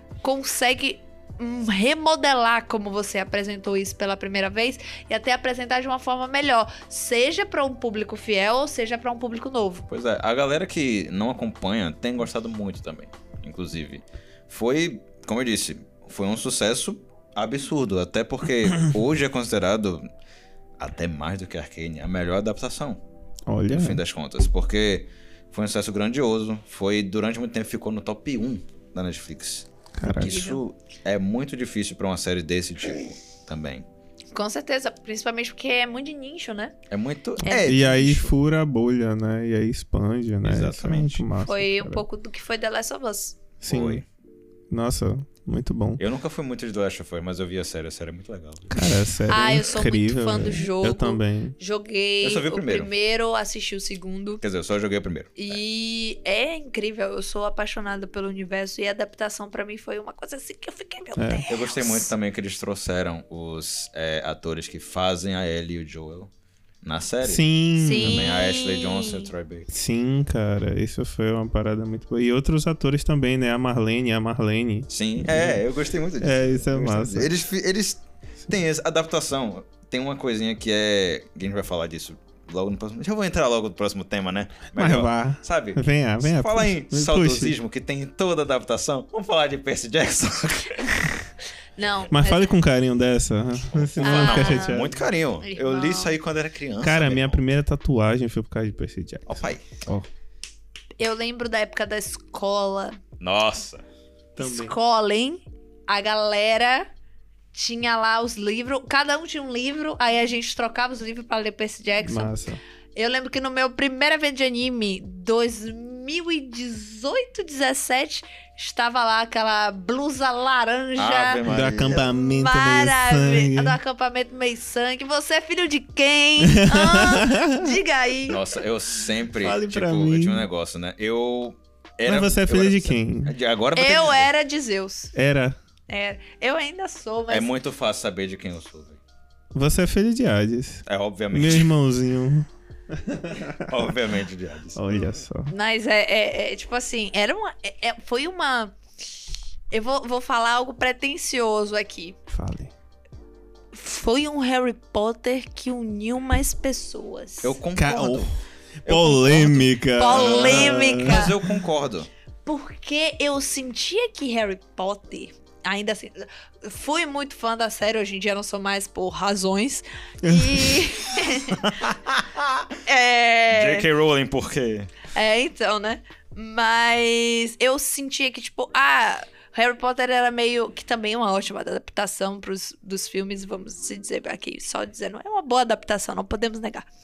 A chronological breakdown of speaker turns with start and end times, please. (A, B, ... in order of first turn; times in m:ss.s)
0:00.2-0:09.8 A
0:09.9-0:20.0 B
0:20.8-0:23.0 B
0:23.5-0:24.0 C
0:23.7-0:33.8 B
0:30.0-0:30.5 C
0:30.0-0:30.6 A
0:34.3-0:36.7 A
0:36.9-0:38.3 B
0:37.4-0:42.0 C
0:40.4-0:41.2 B
0:41.4-0:43.4 A
0:43.6-0:44.0 C
0:43.6-0:44.0 B
0:44.7-0:46.0 C
0:46.0-0:48.9 B
0:48.7-0:51.6 C
0:49.3-0:54.4 A
0:52.2-0:52.9 B
0:54.4-0:55.6 B
0:55.4-1:02.1 A
1:01.2-1:01.4 C
1:01.5-1:09.7 B
1:07.2-1:08.3 C
1:07.8-1:09.3 A
1:09.7-1:15.6 C
1:14.9-1:31.3 B
1:16.2-1:17.3 C
1:24.7-1:27.6 C
1:31.8-1:32.5 A
1:31.8-1:32.1 B
1:32.1-1:35.0 C
1:33.7-1:37.4 B
1:34.0-1:34.9 A
1:35.4-1:36.1 A
1:36.8-1:40.1 C
1:39.3-1:39.8 B
1:41.0-1:43.0 A
1:43.2-1:43.8 B
1:44.4-1:44.8 C
1:44.4-1:46.9 A
1:47.5-1:52.4 A
1:52.0-1:52.6 C
1:53.0-2:01.4 A
2:01.0-2:02.1 B
2:01.4-2:03.8 C
2:02.0-2:08.4 A
2:06.4-2:07.7 C
2:08.3-2:14.3 B
2:09.4-2:10.4 C
2:12.0-2:13.3 C
2:13.7-2:15.1 A
2:15.1-2:15.6 C
2:15.9-2:17.5 A
2:17.3-2:19.0 B
2:19.5-2:23.7 C
2:20.8-2:21.7 B
2:23.7-2:25.1 B
2:24.8-2:25.5 C
2:25.5-2:28.8 A
2:29.7-2:32.2 A
2:32.3-2:32.7 C
2:33.7-2:37.6 A
2:37.4-2:38.3 B
2:37.7-2:41.5 C
2:38.8-2:42.1 B
2:40.0-2:41.3 A
2:42.4-2:51.7 A
2:50.3-2:50.7 C
2:51.5-2:52.7 B
2:52.8-2:53.9 A
2:53.5-2:54.9 B
2:55.1-3:06.9 A